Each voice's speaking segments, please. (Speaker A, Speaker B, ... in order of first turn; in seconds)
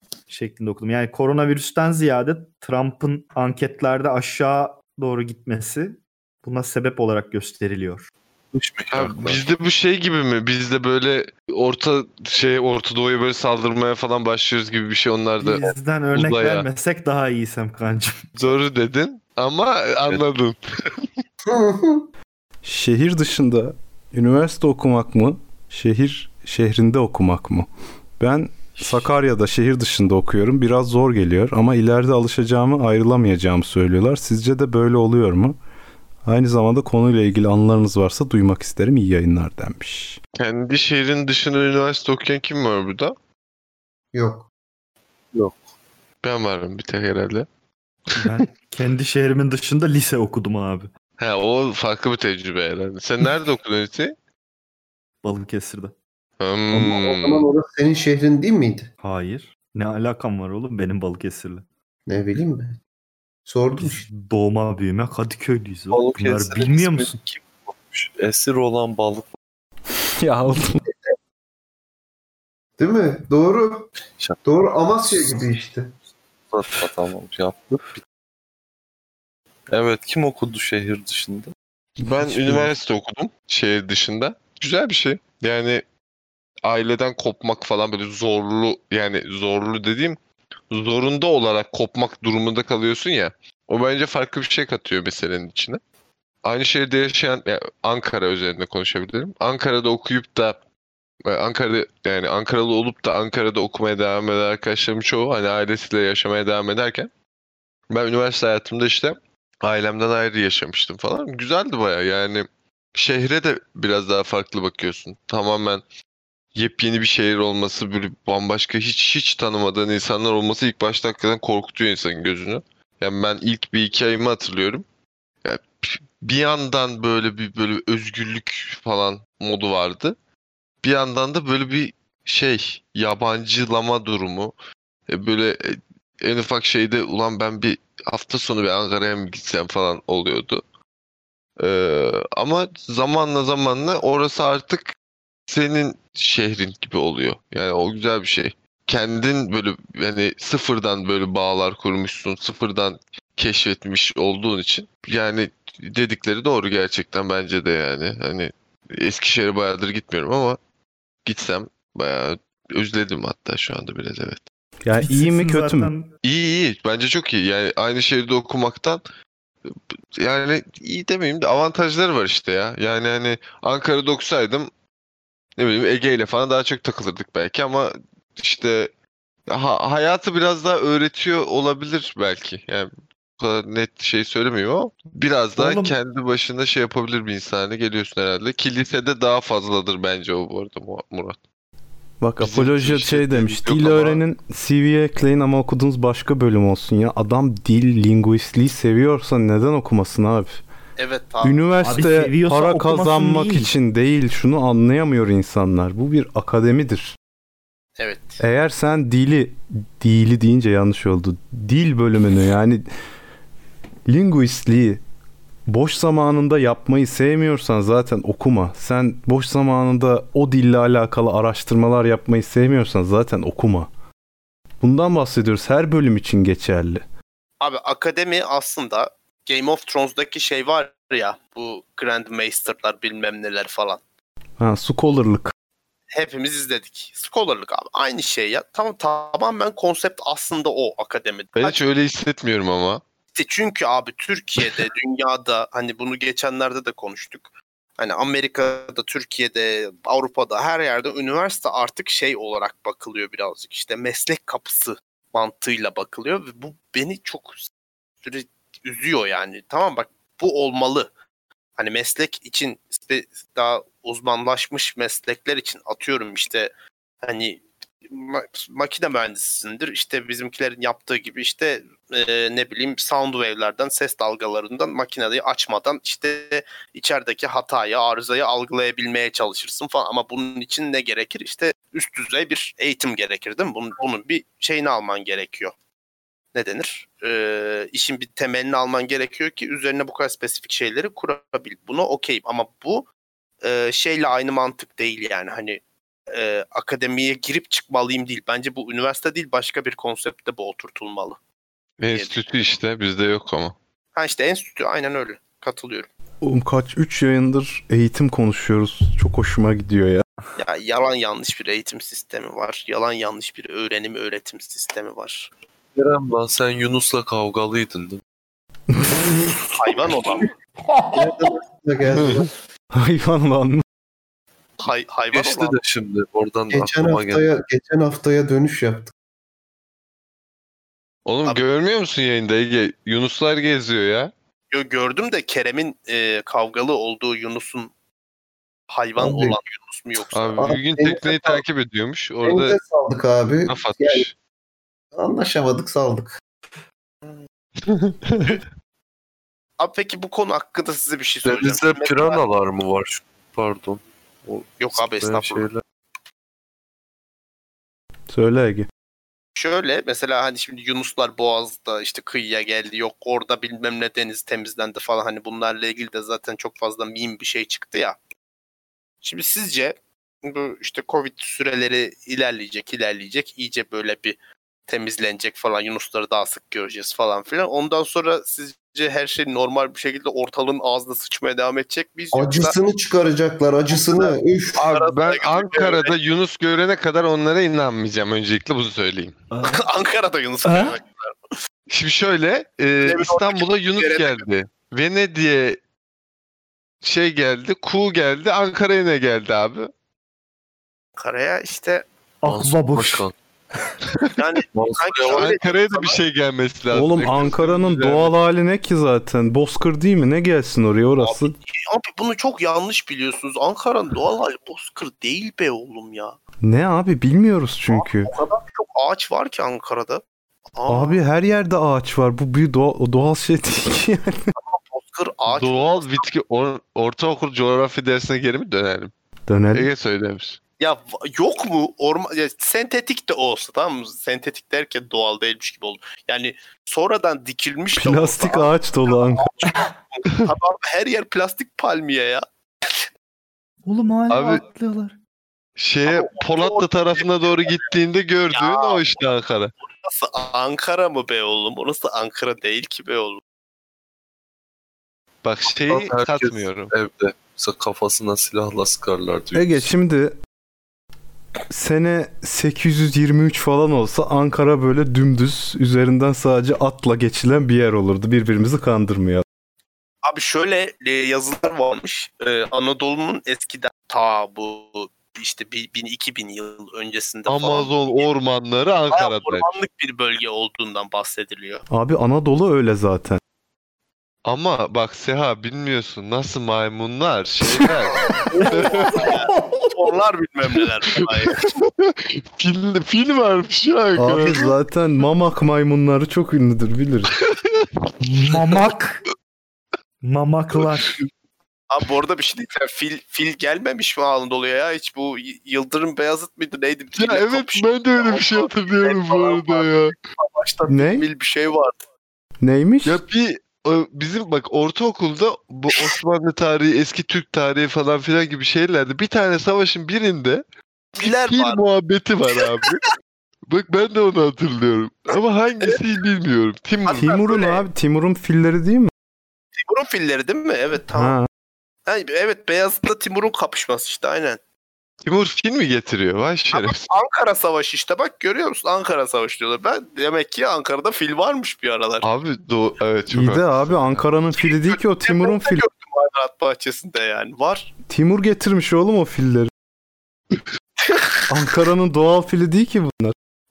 Speaker A: 0.3-8.1, 15.4-18.2, 28.8-29.1, 48.2-50.9, 55.2-55.9, 59.0-61.6, 63.8-67.2, 165.0-166.1, 185.6-185.9, 201.8-203.7, 320.8-321.5, 389.5-389.8, 390.6-391.0, 402.4-403.2, 443.8-445.1, 488.6-489.9, 498.2-499.3, 500.2-501.2
Speaker B: 8.5-9.4, 45.3-45.6, 65.9-69.3, 76.5-78.0, 79.7-81.5, 192.4-194.2, 315.9-318.2, 325.3-327.5, 351.4-355.8, 402.4-403.3, 404.7-405.5, 455.9-459.9
Speaker C: 8.9-16.7, 18.4-21.0, 40.4-43.1, 46.2-47.5, 51.2-54.1, 56.4-57.5, 82.0-85.8, 86.6-90.2, 90.7-95.8, 96.4-100.6, 101.2-107.1, 107.9-115.8, 116.5-124.8, 125.4-130.1, 130.8-134.5, 135.1-140.6, 141.6-144.9, 145.5-160.6, 161.2-164.5, 166.2-169.0, 169.7-174.7, 175.6-178.9, 179.5-191.4, 241.6-243.0, 302.0-303.8, 331.2-334.3, 340.3-342.8, 343.7-344.3, 347.8-348.6, 384.8-389.4, 391.9-395.8, 397.0-399.9, 405.3-408.3, 425.5-429.1, 429.7-430.6, 444.3-444.6, 445.8-449.7, 455.4-456.9, 477.5-479.7, 484.4-489.3, 491.1-494.7, 497.4-497.9, 507.1-510.1, 513.0-520.6, 521.1-523.1, 523.7-527.5, 535.2-537.1, 542.2-544.2
Speaker D: 21.5-22.1, 44.1-44.5, 56.7-58.9, 62.1-62.8, 63.5-64.1, 72.8-73.9, 74.4-75.9, 321.1-322.5, 326.7-329.1, 339.2-339.6, 340.6-341.6, 342.4-344.2, 345.1-346.3, 382.3-384.8
Speaker E: 22.6-27.7, 28.2-35.5, 36.2-40.2, 70.2-70.8, 82.0-82.7, 164.8-165.9, 192.2-200.6, 201.4-207.1, 208.4-212.9, 214.1-215.0, 215.7-223.9, 224.8-227.0, 234.6-235.5, 306.4-310.2, 322.9-323.8, 358.3-358.9, 406.9-411.5, 416.6-418.3, 420.9-424.5, 429.5-429.9, 437.9-439.6, 459.5-460.4, 461.7-469.4, 481.9-483.4, 494.2-497.3, 510.9-511.2, 512.6-513.2, 527.2-529.1, 531.1-531.5, 543.3-545.8, 548.0-549.7, 551.5-553.3
Speaker F: 201.0-201.6, 208.0-208.4, 227.6-234.0, 236.1-241.8, 243.3-257.7, 258.2-261.1, 261.8-266.7, 267.2-285.7, 286.5-293.1, 293.6-301.4, 302.1-302.4, 304.1-306.1, 310.6-315.5, 319.7-320.5, 324.8-325.8, 334.7-337.9, 338.9-340.6, 349.8-352.4, 354.8-355.7, 359.6-368.2, 369.2-382.7, 384.0-384.4, 384.9-386.1, 389.6-391.4, 393.0-394.4, 401.2-402.1, 404.4-406.2, 411.2-416.4, 417.9-420.2, 420.7-421.2, 424.5-426.2, 430.8-443.0, 446.1-447.8, 448.5-449.2, 450.0-453.4, 470.2-478.3, 479.1-481.8, 488.2-491.6, 501.9-512.0, 521.2-521.8, 522.5-522.9, 527.0-527.8, 529.8-531.4, 532.0-534.6, 536.7-542.2, 544.6-547.9, 551.0-551.5